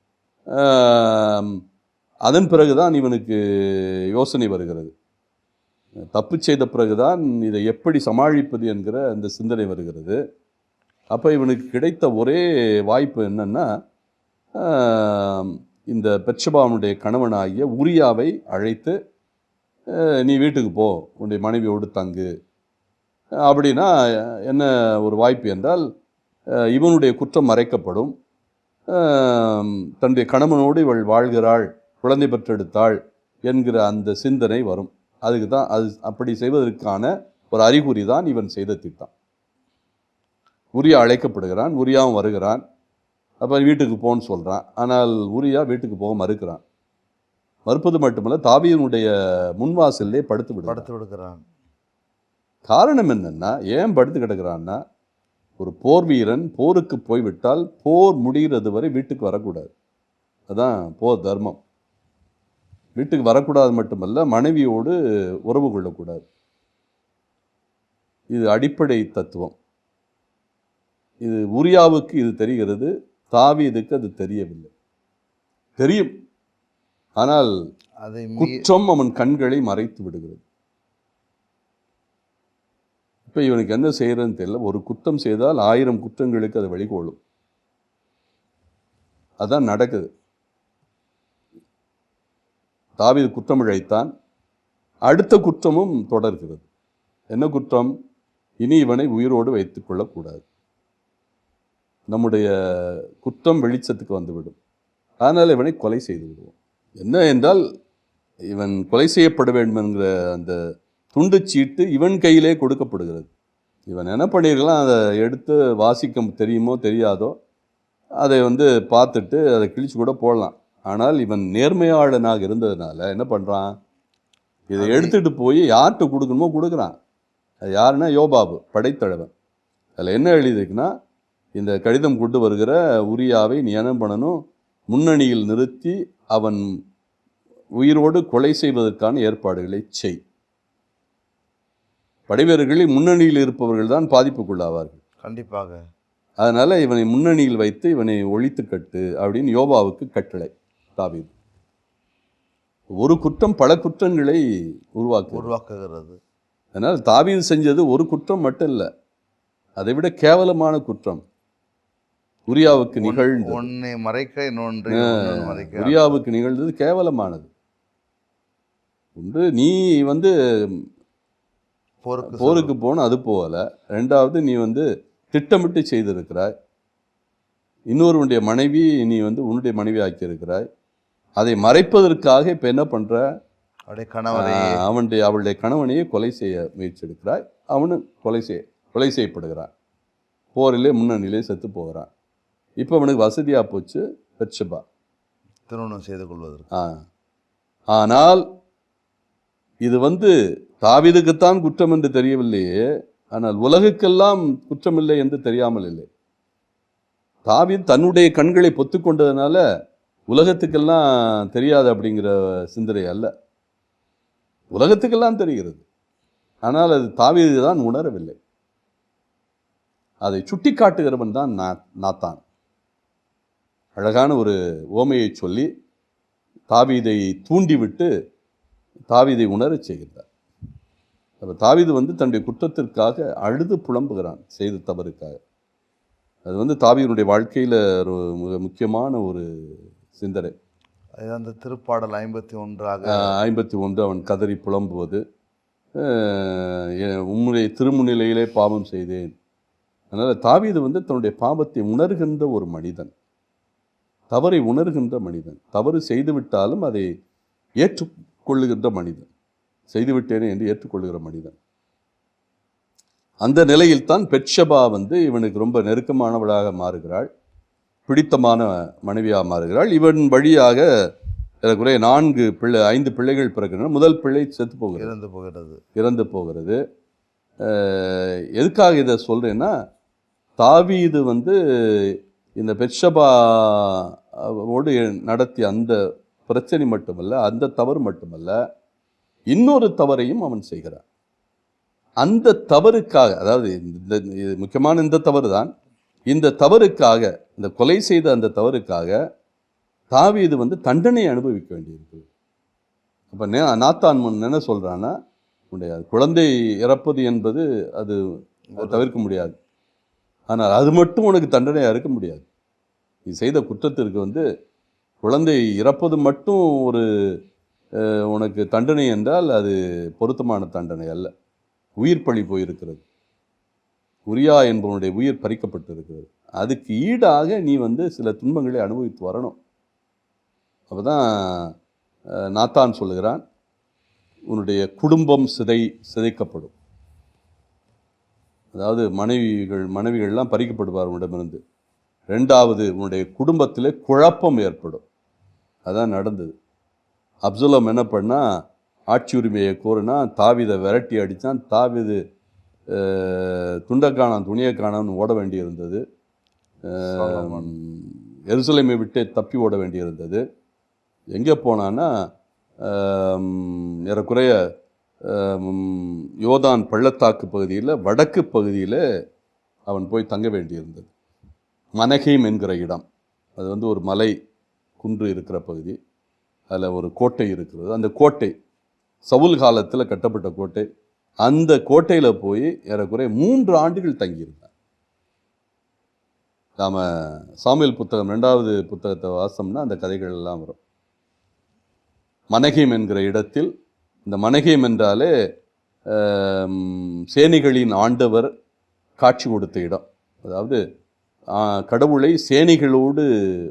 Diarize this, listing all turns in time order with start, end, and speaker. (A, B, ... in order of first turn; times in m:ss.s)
0:00.5-0:01.6 A
0:02.2-0:04.9 A
0:06.1-0:10.2 A
0:11.1-0:13.7 A
0:14.6-0:19.0 A
0:19.9-0:22.3 A
0:23.4-0:25.8 A
0:26.6-0:28.1 A
0:28.9-0:39.1 A
0:40.7-0:42.6 A
0:43.4-0:46.6 A
0:47.7-0:50.9 A
0:50.7-0:51.4 B
0:52.6-0:54.8 A
0:55.6-0:59.7 A
1:00.5-1:01.6 A
1:03.0-1:05.0 A
1:05.5-1:06.2 A
1:08.3-1:09.5 A
1:11.2-1:14.7 A
1:15.8-1:16.1 A
1:17.2-1:17.5 A
1:18.0-1:18.6 B
1:18.4-1:20.4 A
1:23.3-1:27.2 A
1:29.4-1:30.1 A
1:33.0-1:34.1 A
1:35.1-1:36.6 A
1:37.3-1:37.9 A
1:38.6-1:40.4 A
1:42.1-1:44.6 A
1:45.2-1:47.6 A
1:48.5-1:50.6 A
1:51.1-1:53.3 A
1:53.9-1:57.3 A
1:58.2-2:03.7 A
2:04.7-2:06.9 A
2:04.8-2:05.1 B
2:07.7-2:09.3 A
2:10.0-2:10.9 A
2:11.5-2:16.6 A
2:17.8-2:20.2 A
2:22.3-2:25.0 A
2:25.2-2:25.8 B
2:26.4-2:31.3 A
2:33.0-2:34.4 A
2:34.9-2:35.5 A
2:35.3-2:36.2 B
2:36.7-2:38.9 A
2:39.8-2:41.2 A
2:42.5-2:43.7 A
2:43.0-2:46.1 B
2:44.9-2:47.5 A
2:49.2-2:50.8 A
2:52.0-2:52.7 B
2:52.2-2:56.5 A
2:57.9-3:00.6 A
3:01.4-3:03.2 A
3:03.9-3:04.8 B
3:04.3-3:09.7 A
3:10.5-3:12.1 A
3:12.8-3:14.8 A
3:15.7-3:16.6 B
3:16.7-3:17.0 A
3:17.9-3:18.4 A
3:19.8-3:26.1 A
3:27.4-3:29.6 A
3:30.3-3:33.3 A
3:34.7-3:35.8 A
3:36.6-3:38.4 A
3:40.2-3:42.4 A
3:44.0-3:45.7 A
3:46.7-3:48.1 A
3:49.1-3:50.2 A
3:51.4-3:55.4 A
3:56.4-3:59.4 A
4:00.1-4:00.5 A
4:01.2-4:03.3 B
4:03.0-4:05.2 A
4:05.9-4:09.3 A
4:10.1-4:13.1 A
4:14.3-4:17.1 A
4:17.8-4:19.3 A
4:19.9-4:21.5 A
4:23.4-4:27.3 A
4:28.1-4:30.8 A
4:31.6-4:35.1 A
4:35.0-4:35.8 B
4:35.9-4:36.8 A
4:37.6-4:39.7 A
4:40.6-4:45.9 A
4:46.5-4:48.5 A
4:49.5-4:51.0 A
4:52.2-4:55.7 A
4:56.3-4:59.1 A
5:00.1-5:02.2 A
5:03.3-5:05.1 A
5:05.7-5:08.2 A
5:08.7-5:09.0 B
5:08.8-5:09.6 A
5:10.5-5:12.4 A
5:13.2-5:14.4 A
5:15.2-5:17.0 A
5:18.0-5:21.3 A
5:22.0-5:23.0 A
5:24.3-5:29.6 A
5:30.9-5:31.7 A
5:32.5-5:33.4 A
5:34.5-5:36.7 A
5:38.7-5:41.6 A
5:42.3-5:45.0 A
5:45.8-5:46.5 A
5:47.4-5:48.4 A
5:49.1-5:52.2 A
5:52.9-5:56.0 A
5:56.8-6:00.4 A
5:57.0-5:57.7 B
6:01.3-6:02.1 A
6:02.8-6:04.6 A
6:05.2-6:09.0 A
6:09.9-6:11.1 A
6:12.0-6:13.0 A
6:13.6-6:14.3 A
6:15.0-6:16.0 A
6:16.7-6:18.5 A
6:19.2-6:20.8 A
6:21.4-6:24.7 A
6:26.8-6:30.8 A
6:32.5-6:33.7 A
6:34.2-6:35.3 A
6:36.1-6:38.5 A
6:39.2-6:40.8 A
6:41.5-6:43.3 A